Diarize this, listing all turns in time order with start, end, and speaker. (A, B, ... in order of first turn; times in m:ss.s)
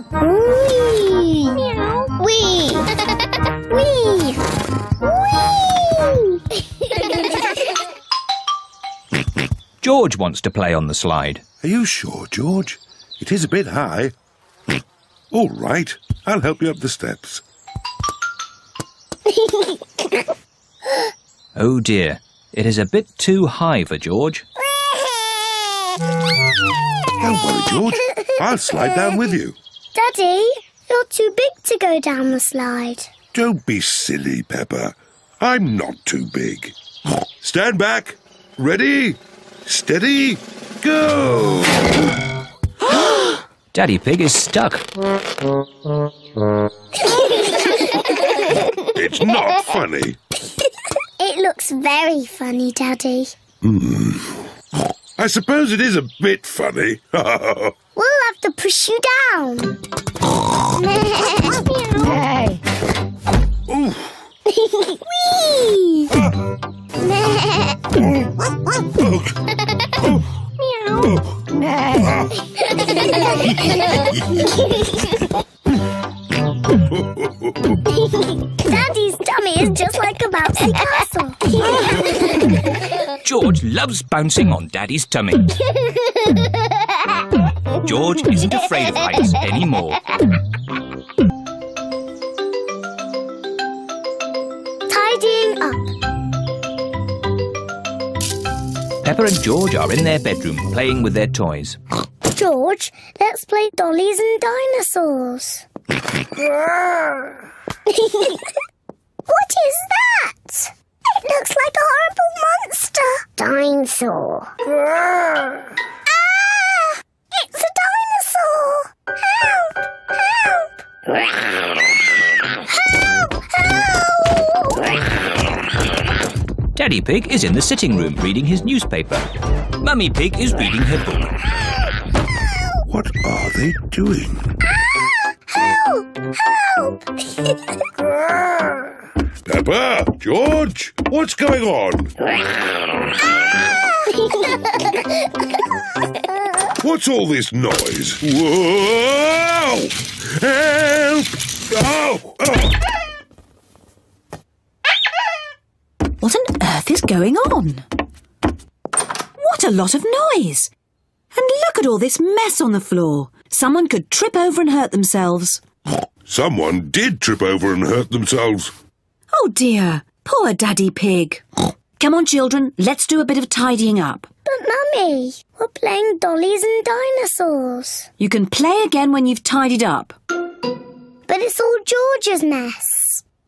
0:00.1-0:02.8 A
0:03.7-0:04.4 A
0:05.0-0:06.4 A
0:09.8-0:11.4 B
0:11.6-0:14.1 C
0:15.3-0:17.4 C
0:21.6-0:24.4 B
0:27.2-0:29.6 C
0:29.9-0:33.1 A
0:33.3-0:36.7 C
0:37.4-0:42.0 C
0:43.7-0:44.8 B
0:48.8-0:50.2 C
0:51.2-0:53.3 A
0:53.6-0:54.4 C
0:55.2-0:57.7 C
0:58.0-0:59.8 A
1:00.8-1:02.1 A
1:03.7-1:04.1 C
1:04.9-1:06.1 A
1:09.0-1:09.3 C
1:12.0-1:12.2 C
1:16.8-1:17.8 C
1:18.6-1:22.2 A
1:23.2-1:25.6 B
1:27.8-1:30.0 B
1:34.9-1:35.9 A
1:39.0-1:41.8 B
1:42.2-1:45.6 A
1:48.0-1:48.4 A
1:49.3-1:54.5 A
1:56.3-1:58.9 A
2:00.3-2:00.6 A
2:02.8-2:04.8 A
2:06.8-2:09.3 B
2:09.8-2:11.4 B
2:12.9-2:14.4 C
2:15.5-2:17.1 A
2:19.4-2:22.1 C
2:26.8-2:32.8 C
2:36.2-2:37.9 D
2:39.4-2:40.7 D
2:41.3-2:45.6 D
2:46.3-2:48.7 C
2:49.3-2:51.4 D
2:52.0-2:54.3 D
2:54.4-2:58.1 A
2:58.2-3:00.2 D
3:01.3-3:03.2 A